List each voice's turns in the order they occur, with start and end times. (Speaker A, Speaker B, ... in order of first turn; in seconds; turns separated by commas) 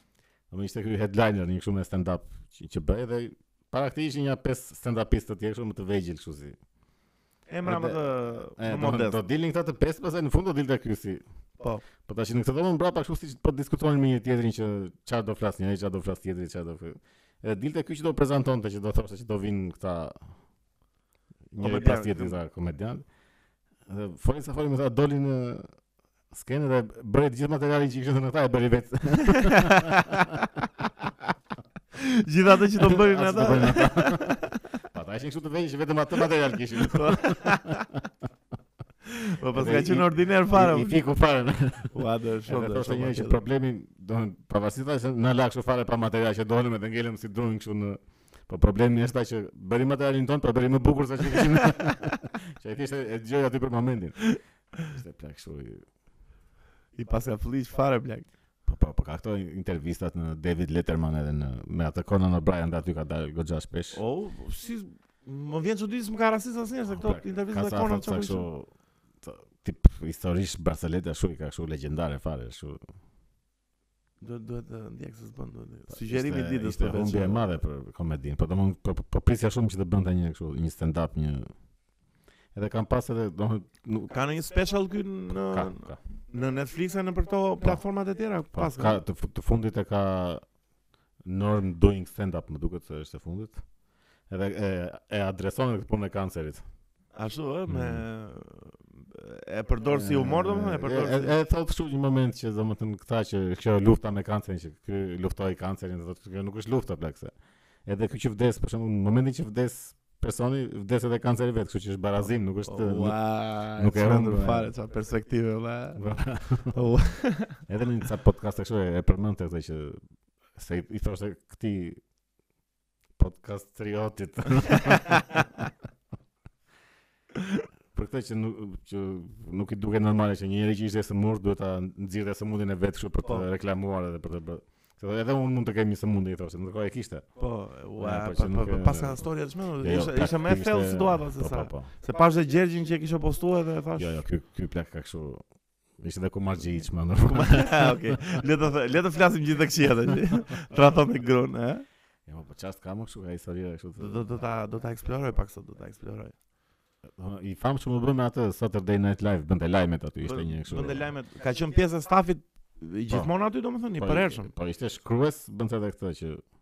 Speaker A: 0.5-6.5, Speaker B: 7.5-9.2, Speaker A: 7.7-8.0, Speaker A: 8.6-11.2, Speaker A: 12.1-20.2, Speaker A: 21.5-23.1, Speaker B: 21.6-22.4, Speaker A: 23.9-25.7, Speaker A: 26.3-30.3, Speaker B: 29.2-30.5, Speaker B: 31.9-34.8, Speaker A: 32.8-37.8, Speaker B: 36.8-37.9, Speaker B: 39.0-41.0, Speaker A: 39.5-55.8, Speaker B: 41.9-43.4, Speaker B: 51.9-52.1, Speaker B: 57.0-58.3, Speaker A: 58.7-64.0, Speaker B: 63.9-68.5, Speaker A: 66.9-68.7, Speaker A: 69.2-72.8, Speaker B: 74.2-77.4, Speaker A: 75.9-81.5, Speaker A: 82.5-84.1, Speaker B: 84.1-89.0, Speaker A: 85.3-86.0, Speaker A: 88.5-90.4, Speaker A: 91.2-93.6, Speaker A: 94.3-96.6, Speaker B: 97.2-101.3, Speaker A: 97.7-98.0, Speaker A: 99.9-107.3, Speaker A: 107.9-113.2, Speaker B: 112.7-116.0, Speaker A: 113.8-114.7, Speaker A: 116.0-116.7, Speaker B: 116.7-117.6, Speaker A: 117.7-120.0, Speaker A: 120.6-122.0, Speaker A: 123.2-125.2, Speaker B: 124.6-125.7, Speaker B: 127.4-127.6, Speaker A: 127.9-137.3, Speaker B: 137.4-144.2, Speaker A: 138.0-139.2, Speaker A: 139.8-141.9, Speaker A: 144.0-145.4, Speaker A: 146.0-148.4, Speaker B: 147.3-151.8, Speaker A: 152.3-154.2, Speaker B: 154.0-156.3, Speaker A: 157.1-161.1, Speaker B: 160.2-164.5, Speaker A: 164.0-166.4